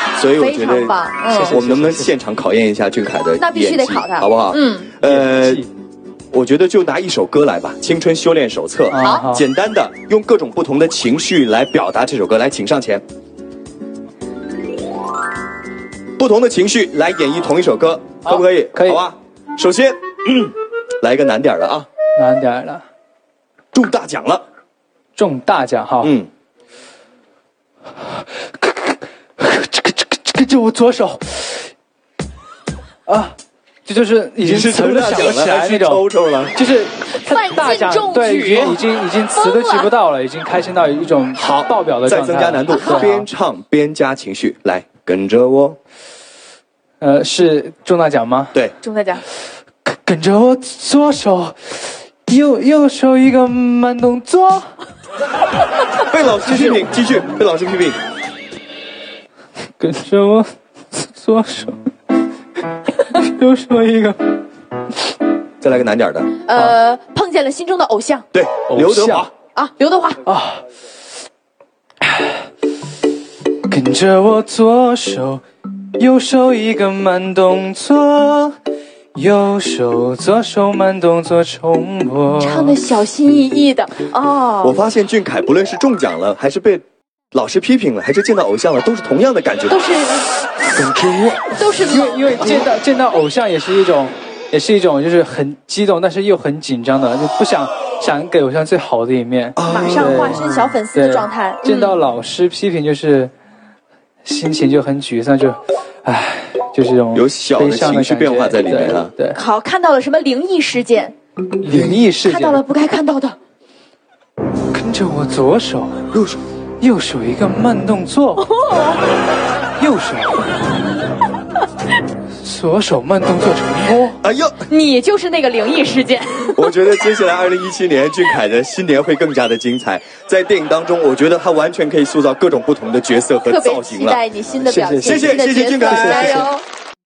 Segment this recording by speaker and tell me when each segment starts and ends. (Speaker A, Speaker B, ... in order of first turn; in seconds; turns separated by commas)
Speaker A: 0.2-1.0, Speaker B: 0.4-1.5, Speaker C: 1.3-2.1, Speaker A: 1.5-5.7, Speaker B: 3.4-4.9, Speaker C: 5.0-5.7, Speaker A: 6.3-13.0, Speaker C: 8.9-9.4, Speaker B: 9.0-9.3, Speaker A: 16.2-21.9, Speaker C: 18.3-19.0, Speaker C: 22.2-22.8, Speaker A: 23.7-24.4, Speaker C: 25.2-26.1, Speaker A: 26.0-26.3, Speaker C: 28.6-31.7, Speaker C: 33.1-33.4, Speaker C: 33.9-43.3, Speaker A: 34.4-36.6, Speaker B: 37.1-38.8, Speaker B: 39.4-39.9, Speaker A: 41.4-45.8, Speaker C: 47.0-48.6, Speaker B: 48.8-49.2, Speaker C: 49.9-54.7, Speaker A: 56.0-58.0, Speaker C: 56.4-56.9, Speaker C: 59.8-61.8, Speaker C: 63.0-64.2, Speaker A: 65.6-66.4, Speaker B: 66.5-68.2, Speaker A: 68.3-69.3, Speaker C: 68.7-69.3, Speaker B: 69.5-70.2, Speaker C: 70.3-70.6, Speaker C: 73.7-75.4, Speaker C: 76.0-78.6, Speaker C: 79.2-82.8, Speaker B: 82.4-84.8, Speaker A: 84.6-89.8, Speaker B: 89.7-90.3, Speaker C: 90.8-103.3, Speaker B: 91.5-92.7, Speaker A: 99.6-100.4, Speaker B: 99.7-102.0, Speaker C: 104.2-109.4, Speaker A: 107.1-109.1, Speaker B: 109.3-111.2, Speaker C: 111.6-112.6, Speaker A: 111.7-112.0, Speaker B: 112.2-113.4, Speaker C: 114.7-116.0, Speaker A: 116.1-116.4, Speaker C: 116.8-118.5, Speaker B: 118.4-119.0, Speaker C: 119.8-120.5, Speaker C: 122.4-124.2, Speaker A: 124.2-124.7, Speaker B: 124.7-126.6, Speaker A: 126.5-134.2, Speaker B: 133.5-136.6, Speaker C: 134.6-136.5, Speaker A: 135.0-136.5